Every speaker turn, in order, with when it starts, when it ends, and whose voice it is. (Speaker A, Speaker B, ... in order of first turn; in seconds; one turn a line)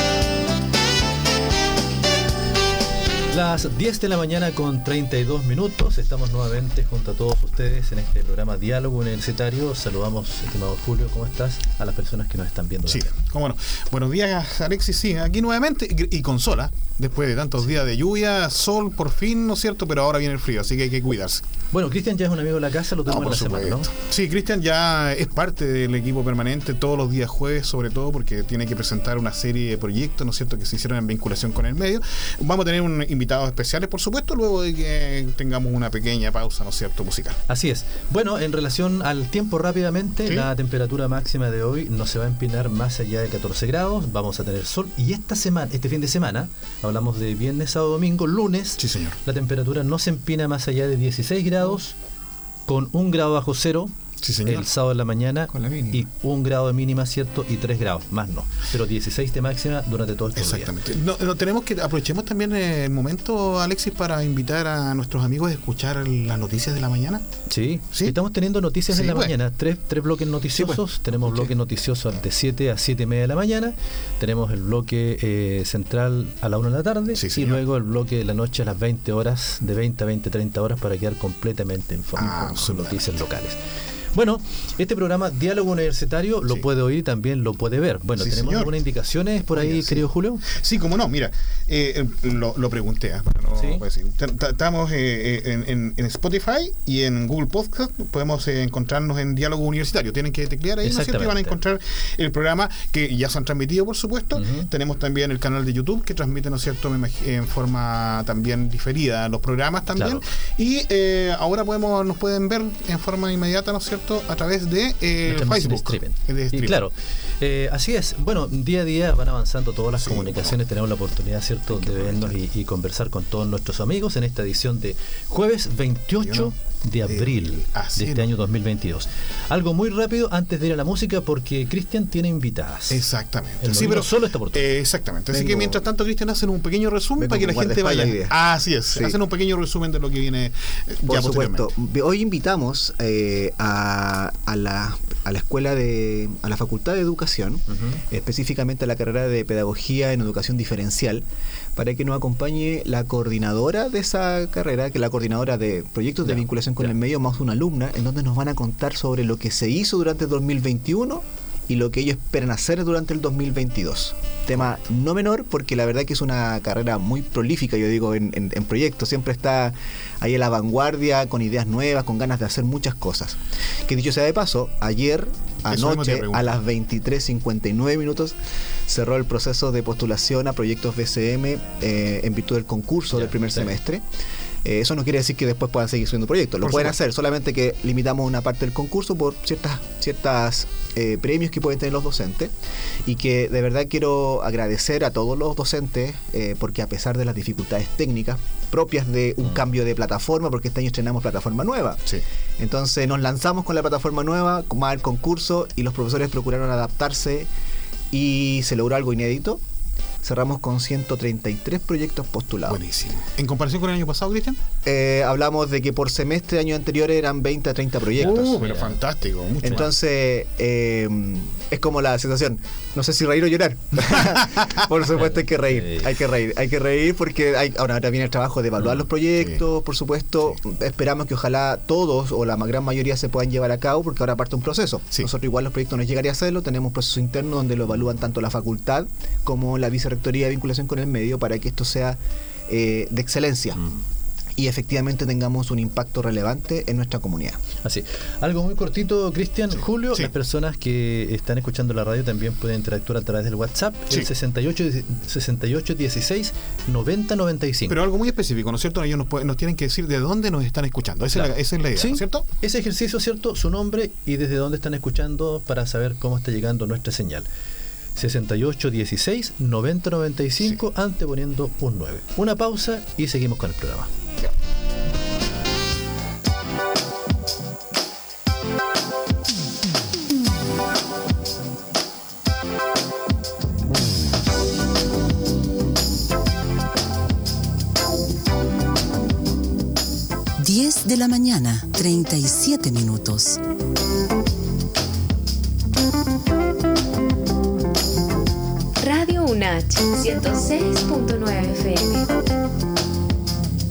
Speaker A: 3.3-13.1
Speaker B: 12.9-21.4
Speaker A: 21.7-23.9
Speaker B: 23.1-37.4
Speaker A: 37.5-52.0
Speaker B: 48.8-49.2
Speaker A: 52.7-53.9
Speaker B: 54.2-54.7
Speaker A: 54.5-60.7
Speaker C: 55.5-56.0
Speaker B: 60.4-67.2
Speaker A: 67.5-83.6
Speaker B: 68.9-69.3
Speaker B: 71.2-71.5
Speaker B: 77.2-77.6
Speaker B: 82.2-83.1
Speaker A: 84.1-90.5
Speaker B: 88.2-88.7
Speaker B: 89.5-116.9
Speaker A: 93.6-93.8
Speaker A: 100.8-101.6
Speaker A: 104.3-104.7
Speaker A: 110.0-110.2
Speaker A: 115.3-133.0
Speaker B: 120.0-120.6
Speaker B: 121.7-122.4
Speaker B: 126.2-126.5
Speaker B: 127.1-128.3
Speaker B: 132.9-141.7
Speaker A: 133.6-134.7
Speaker C: 135.3-135.8
Speaker C: 137.2-138.4
Speaker C: 138.9-139.2
Speaker C: 141.0-184.0
Speaker A: 147.7-148.0
Speaker B: 175.7-176.5
Speaker A: 183.2-183.7
Speaker C: 184.6-192.5
Speaker C: 193.1-202.0
Speaker C: 202.6-207.5
Speaker C: 208.1-209.6
Speaker C: 210.2-212.8
Speaker B: 212.7-214.6
Speaker C: 214.8-218.6
Speaker B: 218.2-219.9
Speaker A: 218.2-219.0
Speaker C: 219.6-243.8
Speaker B: 224.3-224.7
Speaker A: 225.2-226.1
Speaker C: 244.6-247.6
Speaker A: 247.8-258.0
Speaker B: 257.9-262.4
Speaker A: 261.3-267.5
Speaker A: 268.2-274.1
Speaker D: 290.7-293.6
Speaker E: 299.0-302.3